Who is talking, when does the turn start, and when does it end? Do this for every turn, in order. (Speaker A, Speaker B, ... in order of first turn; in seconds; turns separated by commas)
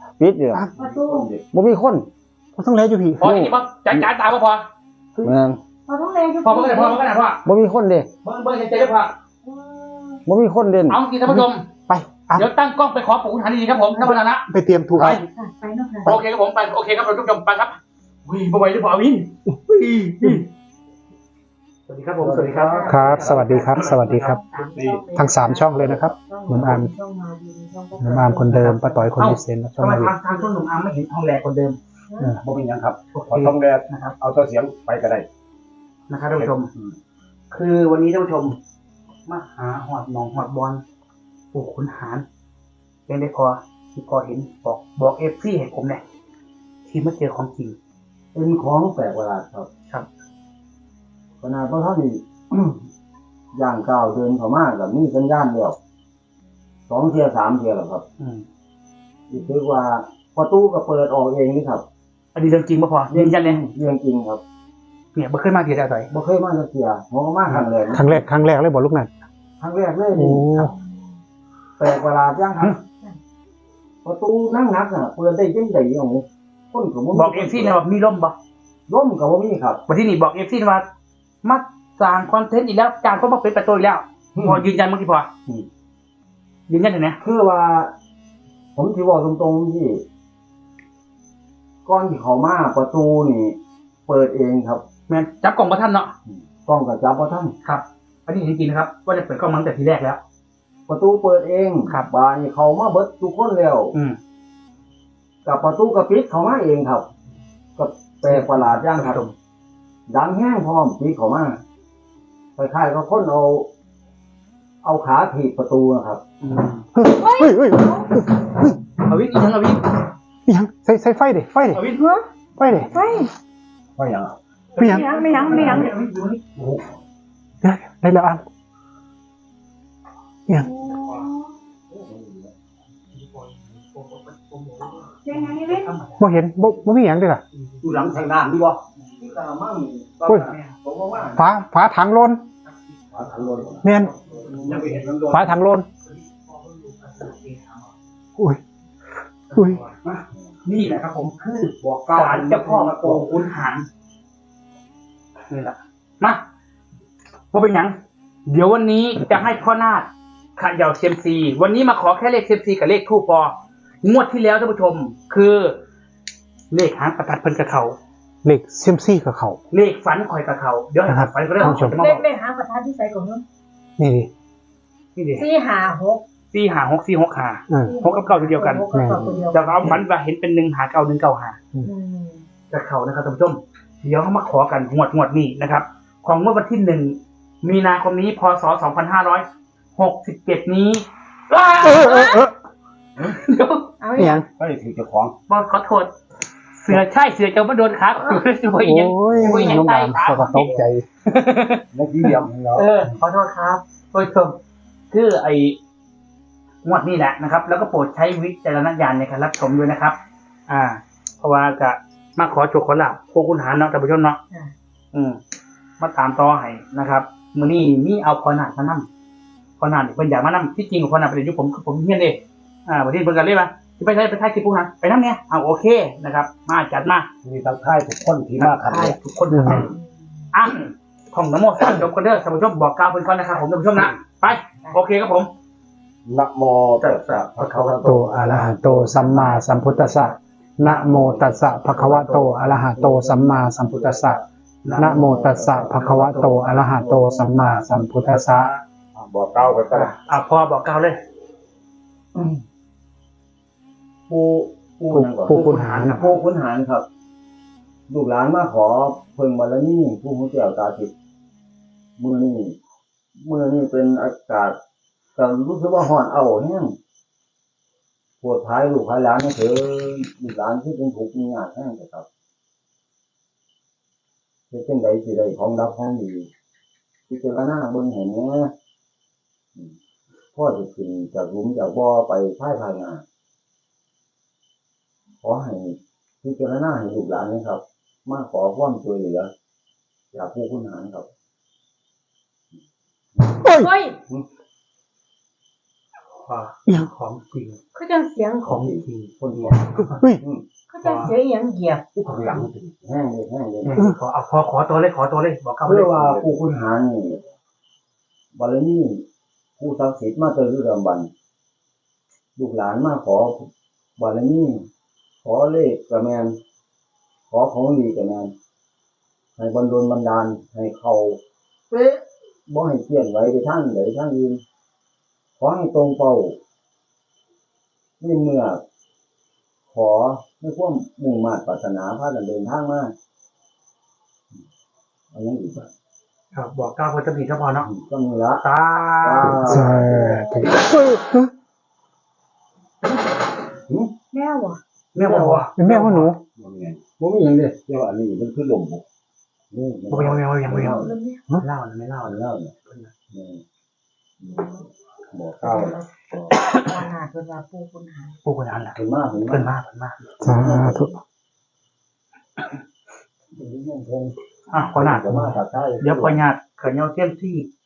Speaker A: 0.2-0.7, Speaker B: 0.8-1.3, Speaker C: 0.8-1.4, Speaker A: 1.5-2.1, Speaker D: 2.6-3.4, Speaker E: 3.2-4.7, Speaker A: 3.2-4.0, Speaker A: 5.2-5.6, Speaker B: 5.9-7.0, Speaker E: 6.4-7.4, Speaker A: 7.5-8.1, Speaker E: 8.2-9.1, Speaker B: 9.4-10.2, Speaker A: 10.3-11.0, Speaker E: 10.9-11.6, Speaker D: 11.3-12.5, Speaker E: 12.3-14.5, Speaker D: 14.5-15.2, Speaker A: 15.0-15.2, Speaker B: 15.0-16.2, Speaker E: 16.0-20.4, Speaker E: 21.9-24.6, Speaker A: 22.2-23.4, Speaker D: 22.9-24.4, Speaker B: 23.4-29.1, Speaker C: 24.7-25.1, Speaker D: 25.1-26.9, Speaker C: 25.8-26.1, Speaker D: 28.0-30.1, Speaker E: 29.2-31.8, Speaker B: 32.1-32.4, Speaker C: 32.4-35.2, Speaker E: 33.1-34.1, Speaker E: 36.1-36.7, Speaker C: 36.3-36.9, Speaker E: 37.5-38.6, Speaker E: 39.3-40.8, Speaker E: 41.5-42.2, Speaker E: 43.1-46.0, Speaker E: 46.9-47.8, Speaker A: 48.3-49.7, Speaker A: 51.4-52.8, Speaker A: 53.5-55.8, Speaker A: 56.9-58.0, Speaker E: 58.2-58.4, Speaker A: 59.3-61.9, Speaker E: 62.4-63.6, Speaker A: 63.1-64.4, Speaker E: 65.2-66.1, Speaker A: 66.1-68.1, Speaker D: 67.9-69.1, Speaker A: 69.6-70.7, Speaker D: 70.1-70.7, Speaker A: 71.8-72.8, Speaker A: 74.0-77.8, Speaker E: 77.1-78.4, Speaker A: 78.9-79.8, Speaker E: 79.9-80.9, Speaker E: 81.4-85.3, Speaker A: 84.3-84.6, Speaker E: 86.7-87.2, Speaker A: 87.2-87.9, Speaker A: 88.8-90.0, Speaker A: 91.8-94.8, Speaker E: 95.1-96.1, Speaker A: 96.3-97.5, Speaker E: 97.6-100.2, Speaker A: 100.9-104.0, Speaker A: 105.5-107.1, Speaker A: 107.8-109.2, Speaker E: 108.2-109.3, Speaker A: 110.1-111.6, Speaker A: 112.6-113.7, Speaker A: 114.8-116.2, Speaker E: 116.4-116.8, Speaker D: 117.0-118.8, Speaker B: 117.0-118.1, Speaker E: 119.0-119.8, Speaker D: 120.5-121.8, Speaker E: 121.7-122.1, Speaker D: 122.6-123.0, Speaker B: 122.9-123.3, Speaker C: 124.0-124.3, Speaker E: 124.8-126.7, Speaker D: 124.8-125.1, Speaker B: 124.8-125.9, Speaker D: 127.6-128.4, Speaker B: 130.5-131.5, Speaker E: 130.7-131.3, Speaker C: 132.1-132.5, Speaker E: 133.1-136.3, Speaker B: 135.2-135.9, Speaker D: 136.2-137.4, Speaker E: 137.5-138.1, Speaker C: 137.8-138.8, Speaker A: 139.2-141.4, Speaker C: 140.2-140.5, Speaker E: 140.3-140.8, Speaker D: 141.3-142.4, Speaker E: 142.7-145.5, Speaker C: 143.1-145.5, Speaker D: 143.8-144.1, Speaker A: 143.9-144.9, Speaker D: 145.3-145.9, Speaker E: 146.0-147.9, Speaker E: 149.5-153.9, Speaker D: 149.6-149.8, Speaker C: 151.6-153.3, Speaker E: 155.5-156.4, Speaker E: 157.5-158.0, Speaker E: 158.5-165.8, Speaker E: 166.7-168.0, Speaker D: 168.4-169.6, Speaker E: 169.7-172.2, Speaker D: 171.1-172.0, Speaker B: 171.6-173.4, Speaker D: 174.0-174.3, Speaker E: 175.2-175.5, Speaker B: 175.4-176.2, Speaker E: 176.5-178.9, Speaker D: 177.7-178.0, Speaker B: 177.8-179.9, Speaker D: 178.9-180.0, Speaker A: 179.2-179.4, Speaker E: 179.5-181.6, Speaker B: 181.8-182.5, Speaker E: 182.7-189.5, Speaker E: 190.0-192.5, Speaker D: 192.0-192.4, Speaker B: 192.0-192.3, Speaker E: 193.2-193.9, Speaker B: 194.0-194.4, Speaker D: 194.2-194.4, Speaker C: 194.6-195.3, Speaker E: 195.5-196.1, Speaker E: 196.8-203.2, Speaker D: 198.8-201.1, Speaker C: 201.9-202.9, Speaker B: 203.2-203.8, Speaker E: 204.1-204.6, Speaker E: 205.1-205.8, Speaker E: 206.8-210.2, Speaker E: 210.7-214.4, Speaker E: 215.1-215.4, Speaker E: 216.0-219.1, Speaker E: 219.8-227.3, Speaker C: 227.4-229.2, Speaker E: 228.6-229.9, Speaker D: 229.5-229.9, Speaker B: 229.7-230.0, Speaker E: 230.5-235.5, Speaker C: 236.2-238.0, Speaker E: 237.0-237.5, Speaker A: 237.5-248.0, Speaker D: 237.8-244.4, Speaker E: 244.8-245.6, Speaker D: 245.0-248.7, Speaker C: 245.4-246.9, Speaker E: 248.3-248.8, Speaker C: 249.2-250.2, Speaker E: 249.9-251.2, Speaker A: 252.3-252.6, Speaker A: 254.3-257.1, Speaker D: 255.1-256.3, Speaker E: 255.5-256.4, Speaker A: 258.1-261.1, Speaker A: 262.2-262.8, Speaker A: 263.4-264.8, Speaker A: 265.4-266.9, Speaker A: 268.4-272.2, Speaker A: 274.7-276.5, Speaker A: 277.3-278.7, Speaker A: 280.6-283.2, Speaker A: 285.4-289.5, Speaker A: 290.3-291.3, Speaker A: 293.4-293.7, Speaker D: 293.6-293.9, Speaker B: 293.6-294.2, Speaker E: 296.5-297.8, Speaker B: 297.9-298.7, Speaker E: 298.6-300.2, Speaker A: 298.6-300.6, Speaker B: 300.9-302.1, Speaker E: 301.0-301.3, Speaker C: 302.1-303.0, Speaker E: 302.3-302.6, Speaker A: 302.4-304.0, Speaker E: 303.8-306.3, Speaker A: 305.8-307.4, Speaker C: 306.2-306.5, Speaker A: 308.5-309.2, Speaker A: 309.8-311.3, Speaker A: 312.6-314.9, Speaker A: 315.4-316.6, Speaker A: 317.5-318.5, Speaker A: 319.6-321.4, Speaker A: 321.9-324.6, Speaker A: 325.6-326.6, Speaker A: 328.2-328.8, Speaker A: 329.9-333.1, Speaker A: 335.3-335.9, Speaker E: 336.5-337.9, Speaker A: 337.8-338.6, Speaker E: 338.6-340.2, Speaker A: 339.2-340.5, Speaker D: 339.5-341.5, Speaker B: 344.3-344.8, Speaker A: 345.1-345.7, Speaker E: 345.1-346.3, Speaker D: 345.8-346.4, Speaker C: 346.5-347.0, Speaker A: 347.2-347.8, Speaker C: 347.9-349.0, Speaker A: 349.7-351.1, Speaker E: 350.1-353.1, Speaker B: 350.8-351.4, Speaker A: 352.2-352.7, Speaker A: 353.3-353.6, Speaker B: 354.5-354.8, Speaker A: 355.3-356.5, Speaker B: 355.6-358.4, Speaker E: 358.4-360.2, Speaker A: 358.9-359.7, Speaker A: 360.4-361.2, Speaker D: 360.4-361.1, Speaker A: 363.5-366.4, Speaker E: 364.7-367.7